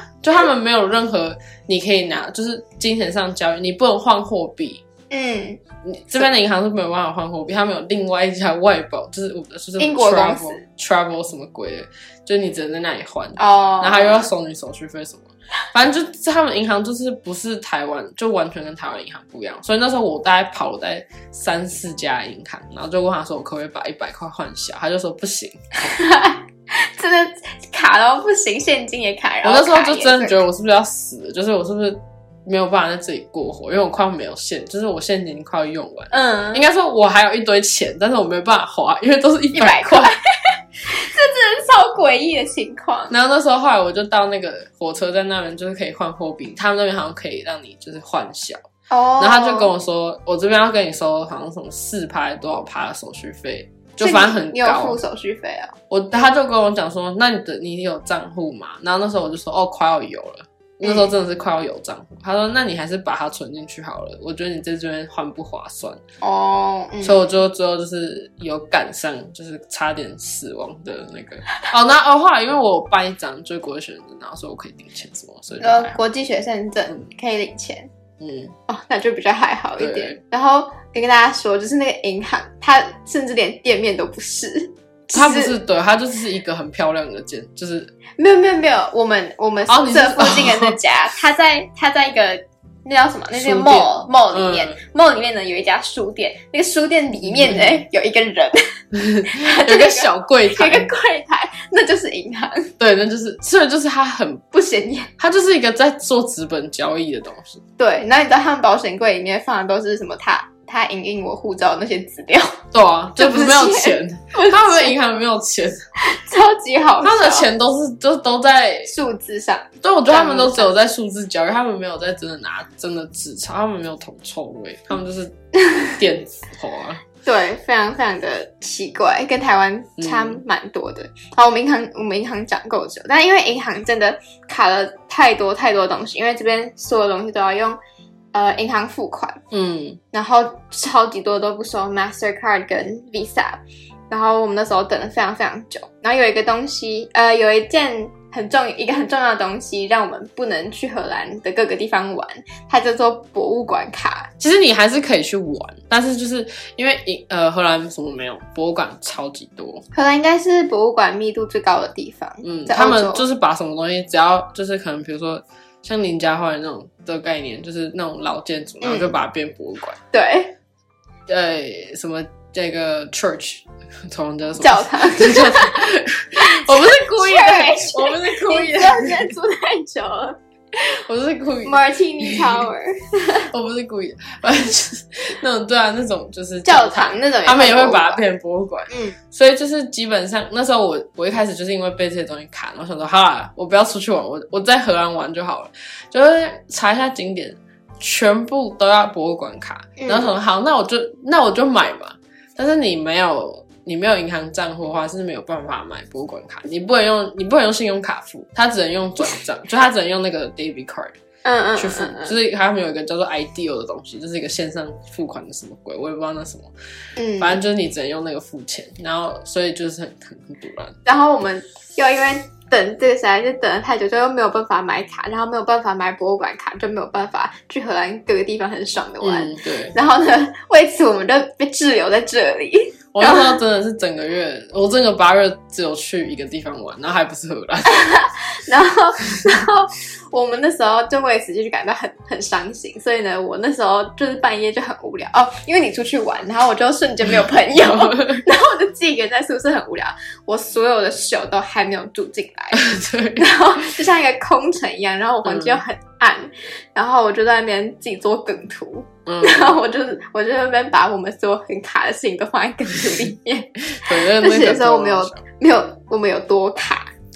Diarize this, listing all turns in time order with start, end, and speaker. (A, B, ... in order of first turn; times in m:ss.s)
0:00.2-0:04.8 A
0:05.1-0:05.6 B
0:05.8-0:25.6 A
0:09.8-0:10.6 B
0:13.4-0:14.3 B
0:25.8-0:30.4 B
0:29.4-0:40.1 A
0:36.1-0:36.6 B
0:39.5-0:43.1 B
0:43.1-0:48.6 A
0:48.9-0:49.7 B
0:49.2-0:55.0 A
0:54.0-0:55.7 B
0:55.9-1:06.0 A
1:06.2-1:07.2 B
1:07.0-1:16.0 A
1:15.6-1:17.9 B
1:18.2-1:18.5 A
1:18.7-1:25.5 B
1:19.8-1:20.2 A
1:25.1-1:27.9 A
1:28.2-1:38.7 B
1:29.7-1:30.8 A
1:33.3-1:34.8 A
1:37.3-1:37.6 A
1:38.9-1:40.9 A
1:39.3-1:42.7 B
1:42.8-1:44.5 A
1:44.5-1:45.1 B
1:45.2-1:47.6 A
1:47.8-1:52.6 B
1:52.7-1:55.8 A
1:53.2-1:54.9 B
1:56.0-1:57.5 B
1:57.0-1:58.9 A
1:58.9-2:00.7 B
1:59.8-2:05.4 A
2:05.6-2:06.0 B
2:06.0-2:07.0 A
2:07.2-2:17.8 B
2:10.0-2:10.4 A
2:18.3-2:19.4 B
2:19.5-2:20.0 A
2:20.1-2:34.3 B
2:34.4-2:39.8 A
2:39.9-2:43.2 B
2:42.4-2:50.0 A
2:48.8-2:49.1 B
2:50.1-2:50.5 B
2:51.3-2:59.3 A
2:54.6-3:00.4 B
3:00.8-3:02.6 A
3:01.6-3:03.5 B
3:03.5-3:31.2 A
3:06.6-3:08.2 B
3:08.9-3:09.2 B
3:20.0-3:20.3 B
3:31.4-3:32.3 B
3:31.8-3:36.7 A
3:37.2-3:37.6 B
3:37.4-3:41.0 A
3:41.0-3:53.6 B
3:49.2-3:49.9 A
3:53.1-3:58.1 A
3:57.8-4:27.1 B
4:07.8-4:08.4 A
4:12.7-4:13.5 A
4:15.4-4:15.8 A
4:19.2-4:19.8 A
4:24.0-4:25.4 A